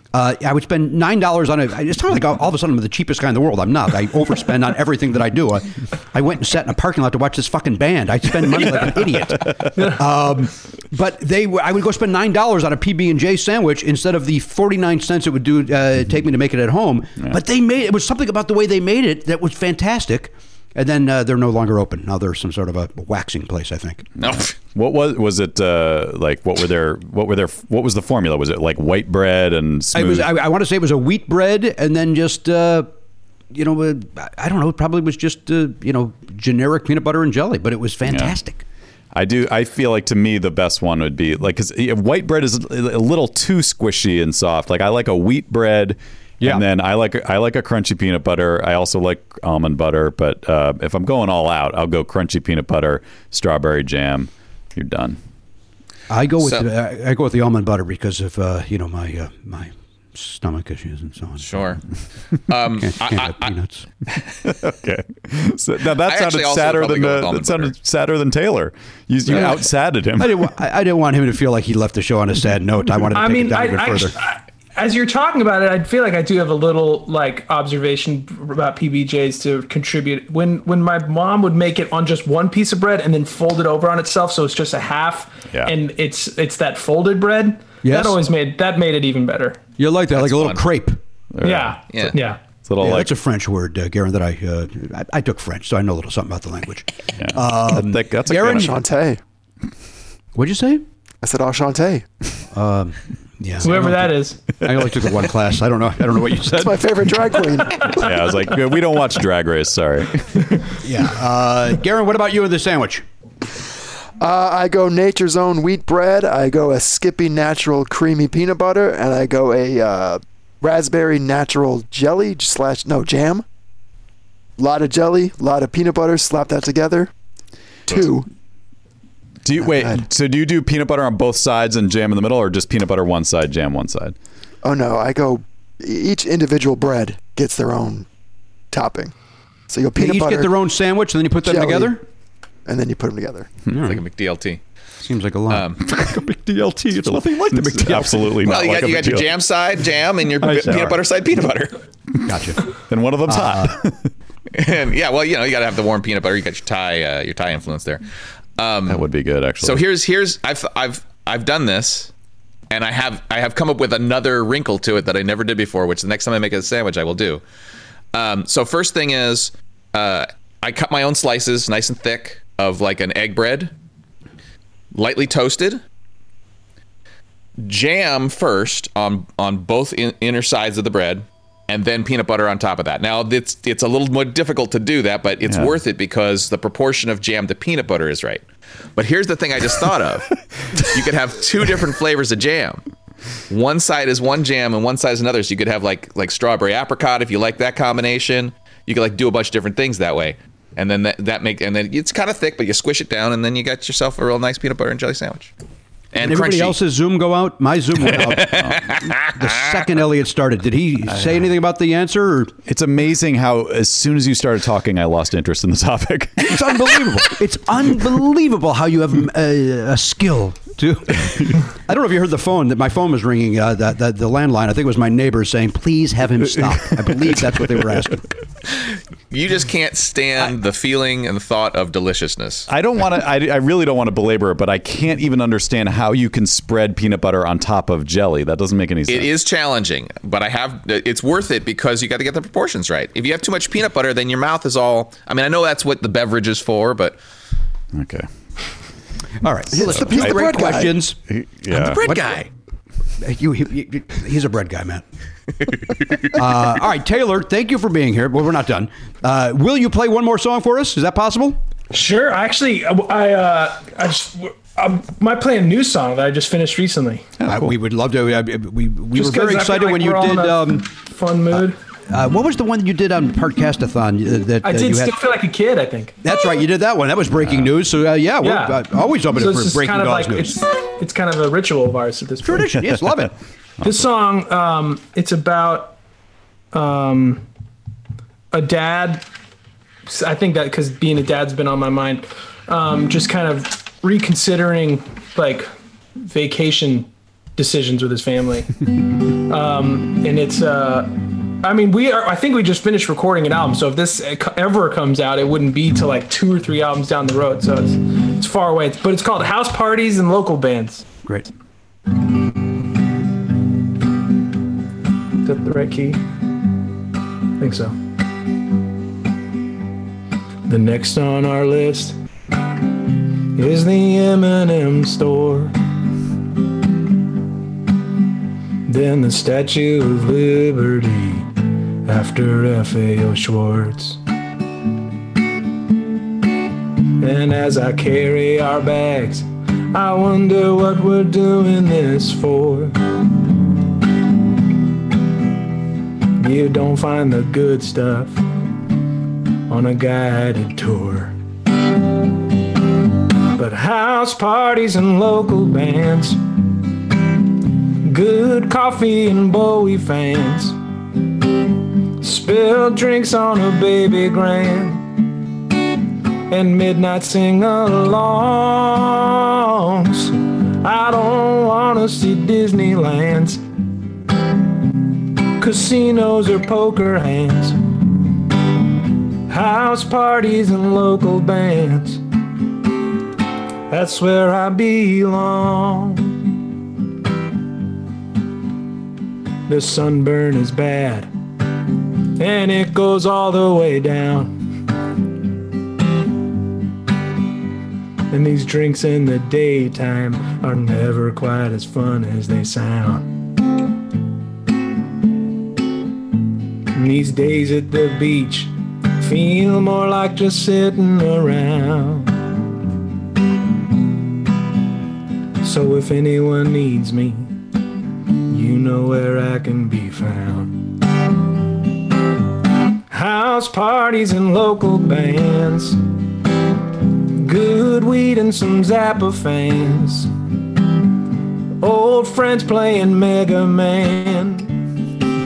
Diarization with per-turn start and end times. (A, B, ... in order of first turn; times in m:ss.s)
0:00.1-0:24.1 A
0:08.6-0:09.0 B
0:09.8-0:10.0 B
0:24.2-0:30.3 C
0:24.2-0:24.5 D
0:29.9-0:32.9 A
0:33.5-0:38.6 A
0:38.1-0:38.4 C
0:39.1-0:55.2 C
0:56.1-1:01.7 A
1:01.4-1:01.8 D
1:02.5-1:03.5 D
1:02.5-1:03.9 A
1:04.4-1:10.5 C
1:06.0-1:07.7 D
1:09.3-1:09.6 A
1:10.2-1:14.2 A
1:13.1-1:29.6 B
1:27.8-1:28.2 A
1:29.8-1:31.0 A
1:30.2-1:30.6 D
1:31.3-1:31.8 C
1:31.4-1:32.4 B
1:31.9-1:32.2 D
1:32.6-1:33.1 C
1:32.8-1:38.7 A
1:37.2-1:38.8 C
1:38.3-1:39.2 E
1:40.4-1:40.8 A
1:41.2-1:42.1 E
1:42.5-1:46.8 A
1:43.6-1:44.4 B
1:46.5-1:48.1 E
1:47.8-1:50.7 C
1:50.8-1:53.0 A
1:54.2-2:03.4 E
2:04.6-2:07.1 E
2:07.9-2:08.3 E
2:09.4-2:14.2 C
2:09.6-2:10.0 E
2:14.6-2:18.1 E
2:18.7-2:19.1 E
2:19.7-2:20.5 E
2:20.0-2:22.0 A
2:21.4-2:22.0 E
2:22.7-2:23.5 E
2:23.7-2:24.0 A
2:23.8-2:24.6 D
2:25.0-2:28.5 A
2:25.5-2:25.8 D
2:27.0-2:29.3 C
2:28.4-2:31.8 D
2:30.4-2:31.0 A
2:32.3-2:32.7 A
2:32.8-2:34.1 C
2:33.3-2:33.8 A
2:34.5-2:38.0 D
2:38.6-2:39.0 D
2:38.9-2:39.8 C
2:39.6-2:42.1 D
2:42.7-2:47.4 D
2:48.1-2:53.7 D
2:54.9-2:55.8 D
2:57.6-3:08.4 D
3:05.5-3:05.7 C
3:09.0-3:12.8 D
3:13.5-3:25.5 D
3:26.1-3:26.8 D
3:26.2-3:32.5 A
3:28.1-3:29.6 D
3:31.1-3:31.5 C
3:32.7-3:37.3 C
3:36.4-3:48.3 A
3:47.0-3:47.8 C
3:48.8-3:52.7 D
3:52.7-3:59.3 C
3:59.1-4:07.2 D
4:07.9-4:08.3 C
4:09.4-4:11.2 A
4:09.7-4:10.9 E
4:09.8-4:12.1 C
4:11.7-4:12.5 D
4:12.0-4:12.5 A
4:13.2-4:15.0 A
4:16.2-4:21.6 A
4:21.9-4:27.3 B
4:27.4-4:27.7 C
4:27.5-4:30.9 A
4:29.1-4:31.8 B
4:31.5-4:35.2 A
4:34.6-4:36.2 B
4:36.2-4:40.6 A
4:37.4-4:37.7 C
4:38.4-4:42.7 B
4:42.4-4:43.3 A
4:43.8-4:46.0 B
4:46.7-4:47.4 B
4:48.5-4:49.2 B
4:50.1-4:58.8 B
4:59.5-5:11.0 B
5:15.4-5:16.2 B
5:17.6-5:18.0 B
5:20.7-5:22.2 B
5:23.6-5:25.8 B
5:28.9-5:34.2 B
5:37.2-5:43.0 B
5:46.4-5:48.4 B
5:49.7-5:51.3 B
5:53.6-5:56.5 B
5:58.0-6:00.8 B
6:02.2-6:05.4 B
6:06.5-6:13.6 B
6:15.6-6:17.9 B
6:19.5-6:22.2 B
6:23.9-6:26.4 B
6:29.7-6:31.3 B
6:32.4-6:34.6 B
6:38.3-6:43.3 B
6:47.0-6:52.4 B
6:55.6-6:57.6 B
6:58.5-7:00.8 B
7:03.1-7:06.0 B
7:07.4-7:10.3 B
7:11.8-7:15.0 B